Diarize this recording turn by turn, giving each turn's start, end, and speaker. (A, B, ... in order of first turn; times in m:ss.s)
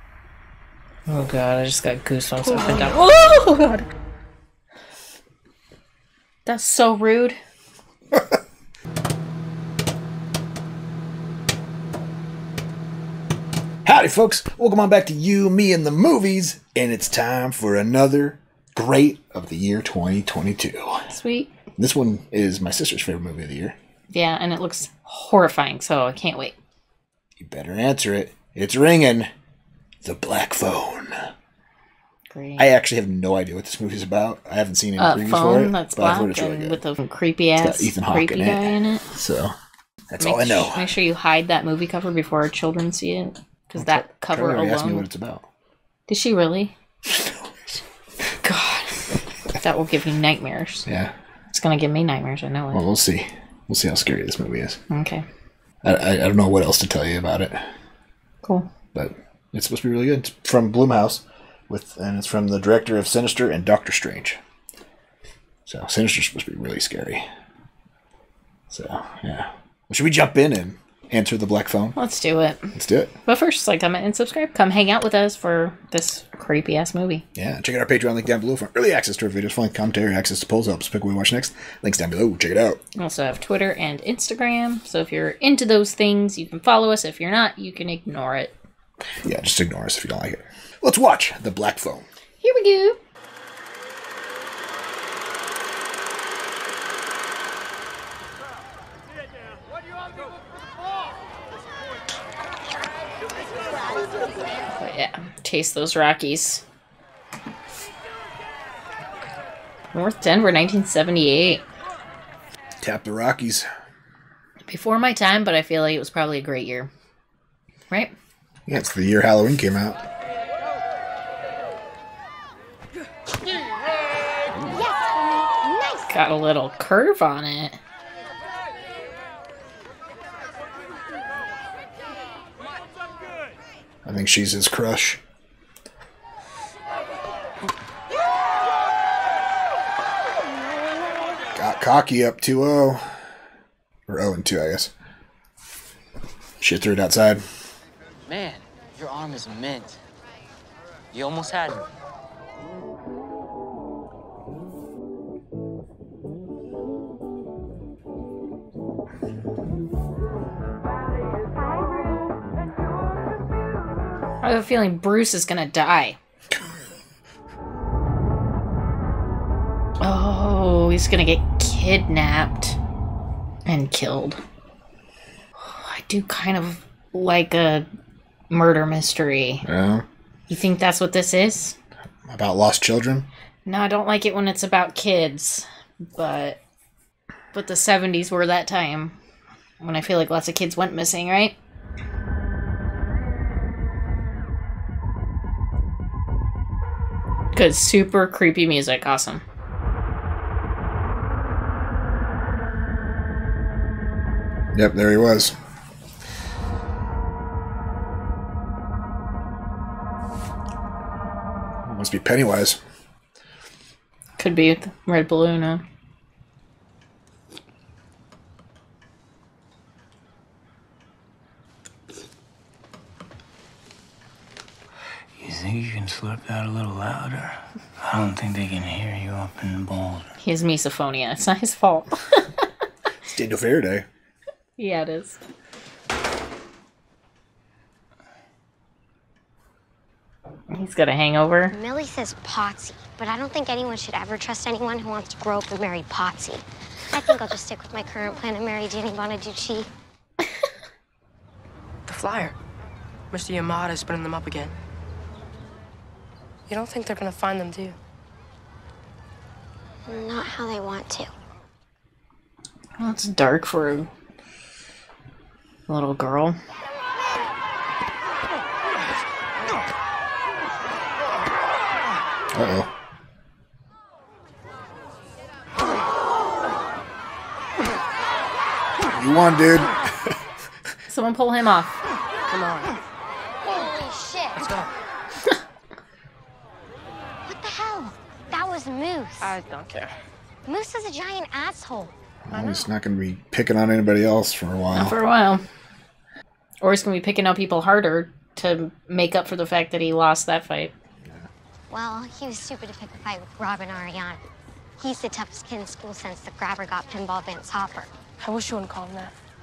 0:01.1-0:03.8 A
0:02.7-0:02.9 B
0:06.4-0:07.4 A
0:13.8-0:21.1 C
0:21.1-0:21.6 A
0:21.8-0:23.8 C
0:24.1-0:26.5 A
0:27.4-0:29.3 C
0:30.0-0:31.3 C
0:32.3-0:32.7 A
0:32.6-0:36.8 C
0:35.0-0:39.0 A
0:37.6-0:39.5 C
0:40.1-0:40.9 C
0:40.2-0:45.1 A
0:43.7-0:45.5 C
0:46.1-0:46.7 A
0:48.4-0:50.8 A
0:50.8-0:51.1 C
0:51.5-0:52.8 A
0:52.7-0:54.8 C
0:54.9-0:55.2 A
0:55.8-0:57.7 C
0:58.4-0:58.7 A
0:58.9-1:04.4 C
1:05.6-1:07.3 C
1:08.7-1:12.0 C
1:12.0-1:17.2 A
1:12.7-1:13.1 C
1:17.3-1:22.8 C
1:23.0-1:28.5 A
1:29.2-1:32.0 C
1:32.4-1:33.0 A
1:44.7-1:46.6 A
1:49.9-1:51.6 A
1:52.8-1:53.7 C
1:54.7-1:56.9 A
1:58.7-2:00.0 C
2:04.6-2:06.1 D
2:06.1-2:07.8 A
2:14.0-2:15.2 C
2:21.5-2:23.2 C
2:24.1-2:24.9 C
2:26.6-2:27.4 C
2:28.3-2:30.0 E
2:31.1-2:31.8 E
2:44.4-2:46.2 A
2:50.0-2:52.8 A
2:53.6-2:54.4 A
2:55.6-2:57.8 A
2:58.5-2:59.6 A
2:59.6-3:00.0 C
3:00.5-3:01.7 A
3:02.3-3:03.2 C
3:03.6-3:06.6 A
3:07.5-3:09.2 A
3:09.8-3:11.5 A
3:17.5-3:19.4 A
3:24.7-3:25.5 C
3:31.8-3:32.8 C
3:34.4-3:35.8 A
3:45.4-3:50.3 F
3:50.4-3:52.6 A
3:53.2-3:54.0 C
3:54.8-3:55.4 A
4:00.7-4:01.8 A
4:01.7-4:09.9 D
4:12.1-4:12.6 B
4:13.3-4:14.7 B
4:16.7-4:18.0 B
4:20.0-4:21.3 D
4:23.0-4:24.1 A
4:25.9-4:26.6 A
4:32.5-4:32.9 C
4:39.1-4:40.3 C
4:41.1-4:42.0 A
4:42.5-4:43.0 B
4:43.7-4:44.7 D
4:47.4-4:49.5 D
4:49.4-4:50.1 B
4:50.6-4:52.1 D
4:52.4-4:55.2 C
4:52.5-4:52.9 B
4:54.9-4:55.6 A
4:56.8-5:00.9 A
5:01.2-5:01.5 C
5:01.9-5:04.4 D
5:05.0-5:08.1 D
5:08.4-5:09.3 B